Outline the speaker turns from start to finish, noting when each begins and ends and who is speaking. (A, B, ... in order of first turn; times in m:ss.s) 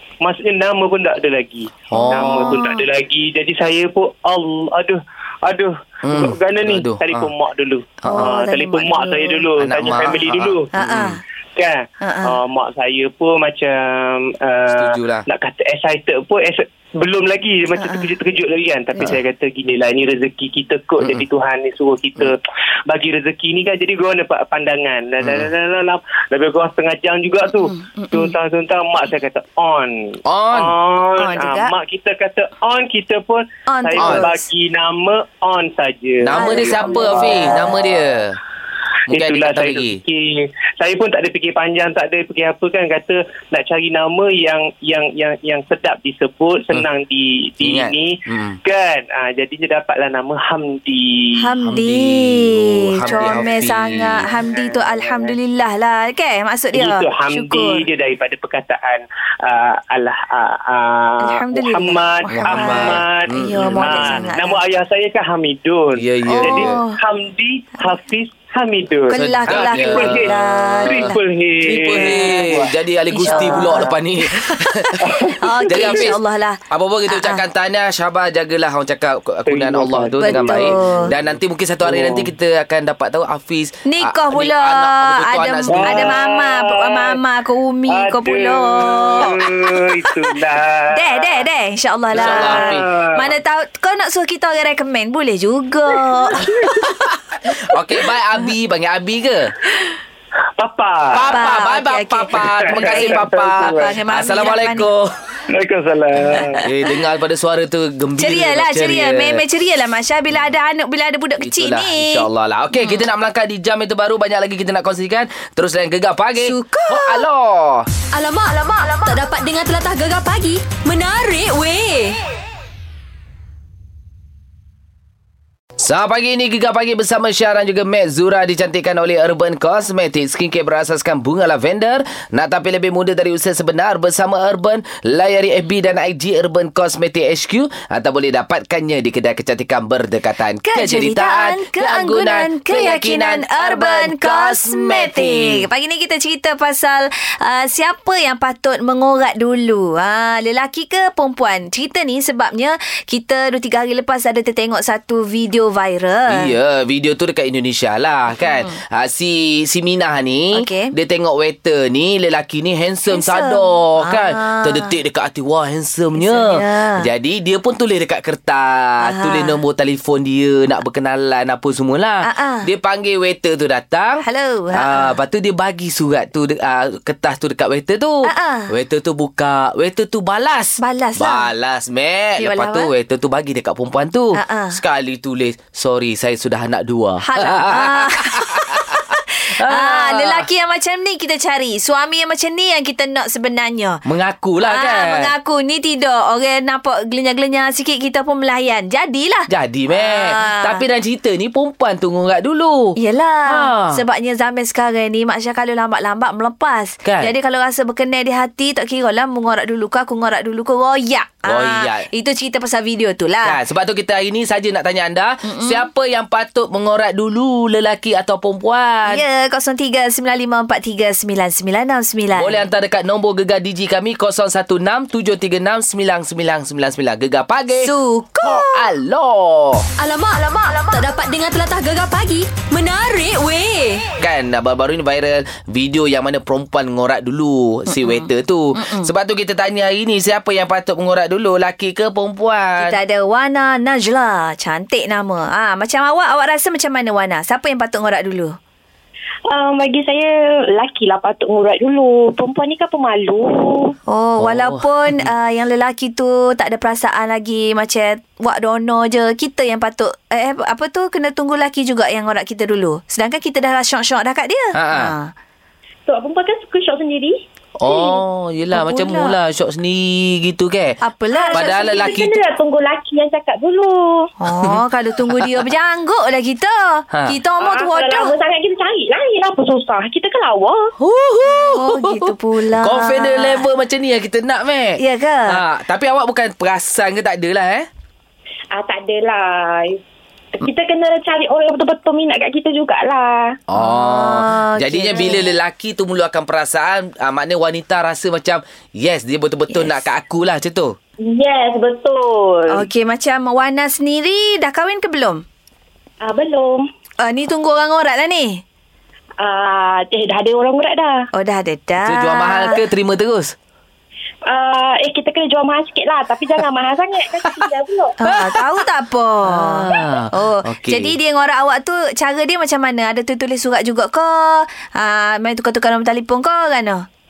0:00.2-0:10.7 A
0:01.9-0:02.6 B
0:01.9-0:02.8 C
0:06.0-0:07.3 B
0:08.0-0:08.3 B
0:08.1-0:09.4 C
0:09.6-0:11.2 B
0:10.7-0:11.2 C
0:11.6-0:37.8 A
0:12.0-0:12.4 C
0:14.7-0:15.3 B
0:17.8-0:18.1 C
0:25.2-0:25.5 B
0:27.5-0:28.4 C
0:30.2-0:30.7 B
0:31.2-0:31.7 C
0:33.7-0:34.4 C
0:34.0-0:34.3 B
0:36.2-0:38.4 B
0:36.3-0:37.7 C
0:39.1-0:40.0 B
0:39.1-0:51.5 A
0:47.6-0:48.6 B
0:51.4-0:57.8 C
0:51.7-0:54.3 B
0:53.0-0:55.4 A
0:56.7-1:12.7 A
1:01.2-1:04.6 C
1:02.3-1:04.3 B
1:06.0-1:06.8 B
1:06.3-1:07.0 C
1:09.1-1:11.2 C
1:09.1-1:26.2 B
1:13.1-1:17.4 C
1:15.1-1:15.9 A
1:19.5-1:22.3 A
1:20.2-1:21.1 C
1:23.9-1:29.8 C
1:25.7-1:27.2 A
1:27.9-1:31.4 A
1:30.9-1:36.5 C
1:32.1-1:32.8 B
1:32.1-1:33.4 A
1:36.3-1:36.8 A
1:36.6-1:36.9 B
1:37.4-1:39.5 B
1:40.6-1:41.3 A
1:41.1-1:45.1 B
1:41.3-1:44.9 C
1:42.3-1:43.9 A
1:45.5-1:46.6 A
1:46.6-1:49.4 B
1:48.2-1:52.3 C
1:51.4-1:57.9 B
1:52.8-1:53.0 C
1:56.4-1:57.2 C
1:58.1-2:02.2 D
2:05.8-2:25.7 B
2:20.7-2:36.5 C
2:36.3-3:09.0 B
2:38.4-2:38.7 C
2:40.5-2:40.9 C
2:43.1-2:44.9 C
2:46.2-2:47.1 C
2:49.0-2:49.6 C
2:52.2-2:52.7 C
2:54.2-2:55.2 C
2:58.2-2:58.7 C
3:00.8-3:01.5 C
3:02.4-3:02.9 C
3:04.3-3:04.8 C
3:07.2-3:14.0 C
3:09.6-3:10.5 B
3:14.0-3:15.3 B
3:14.6-3:20.8 C
3:19.5-3:23.0 B
3:23.0-3:33.6 C
3:23.5-3:24.0 B
3:27.0-3:27.3 B
3:31.5-3:32.1 B
3:33.4-3:39.2 B
3:35.4-3:35.9 C
3:39.1-3:42.6 C
3:42.4-3:49.9 B
3:47.8-3:48.9 C
3:50.0-3:54.1 D
3:54.2-4:03.0 B
3:57.9-3:59.1 C
4:02.8-4:08.6 C
4:09.5-4:14.0 E
4:14.1-4:25.3 C
4:14.4-4:15.3 B
4:24.7-4:25.1 B
4:26.1-4:27.4 E
4:27.8-4:31.0 B
4:28.7-4:29.4 C
4:31.0-4:32.1 C
4:31.3-4:34.3 E
4:31.5-4:32.4 B
4:34.4-4:38.4 C
4:34.6-4:35.6 B
4:37.1-4:37.4 B
4:37.6-4:40.9 E
4:41.0-4:47.9 B
4:41.4-4:43.7 C
4:45.0-4:45.6 C
4:48.7-4:50.0 E
4:50.6-4:53.6 E
4:53.7-5:01.0 B
4:53.8-4:55.5 C
5:01.2-5:02.8 E
5:02.7-5:05.4 C
5:06.2-5:06.9 E
5:07.2-5:08.6 C
5:09.4-5:11.3 E
5:11.3-5:12.8 C
5:12.0-5:13.6 B
5:14.5-5:18.2 E
5:18.2-5:27.1 C
5:18.3-5:18.6 B
5:19.4-5:21.2 B